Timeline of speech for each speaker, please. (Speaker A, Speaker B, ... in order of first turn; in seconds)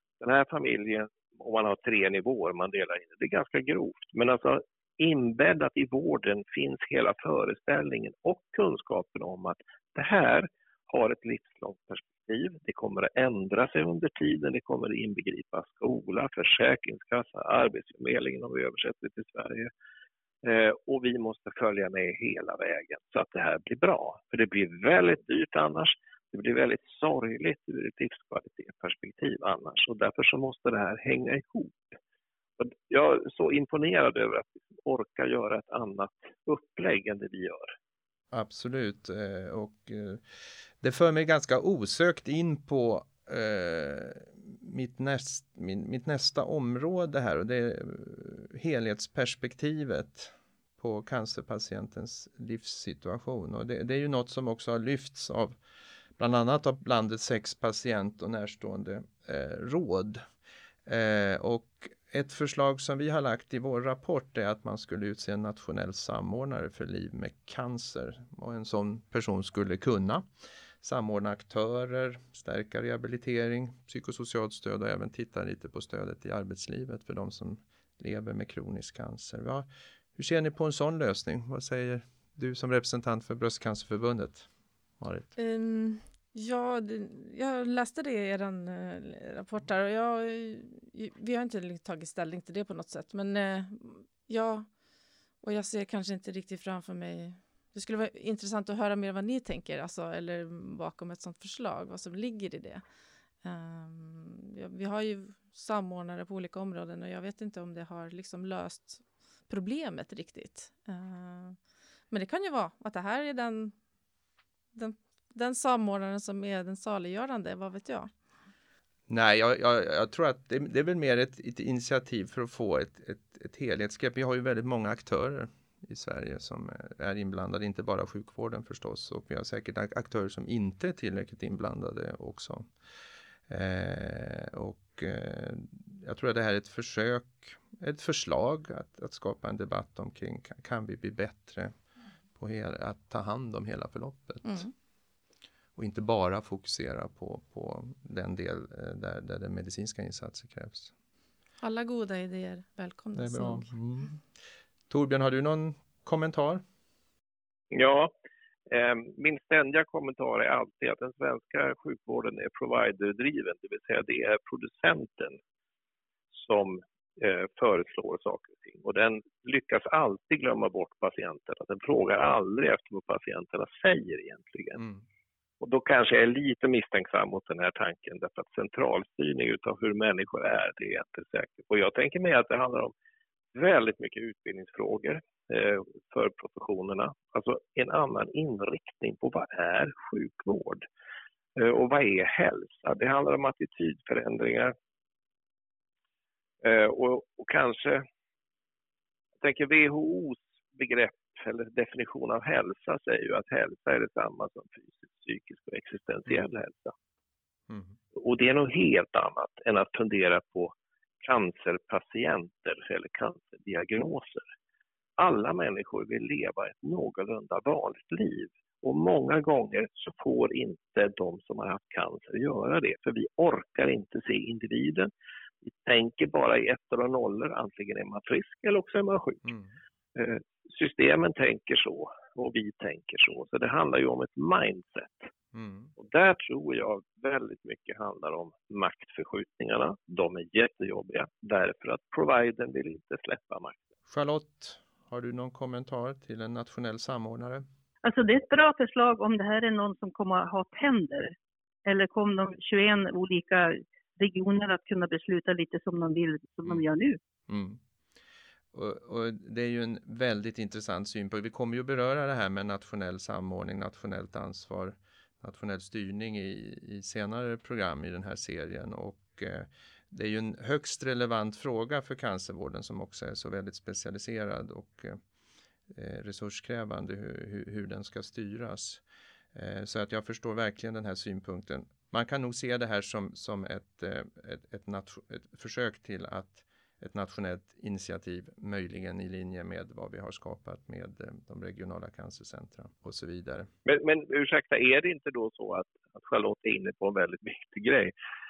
Speaker A: 0.2-19.7, 20.4-31.9, 32.6-37.7, 157.7-158.1, 158.7-165.4, 166.3-174.8, 175.6-182.9, 183.5-190.8, 191.6-194.7, 196.6-198.0, 199.4-206.9, 208.1-214.4, 215.2-225.1, 225.6-229.4, 230.1-235.3, 236.0-243.8, 293.8-298.1
Speaker B: 38.3-55.6, 56.2-60.2, 60.9-70.2, 70.8-85.3, 119.1-132.7, 133.5-141.7, 142.4-144.6, 145.8-150.9, 153.1-154.2, 154.9-156.6, 174.8-175.0, 207.7-208.0, 229.4-229.7, 235.5-235.9, 244.1-247.6, 257.5-257.8, 258.7-275.2, 275.9-293.7
Speaker C: 85.3-94.7, 95.4-102.8, 103.4-111.6, 112.1-113.7, 114.7-118.1, 144.4-144.7, 151.6-153.7
Speaker D: 248.0-251.3, 251.8-257.2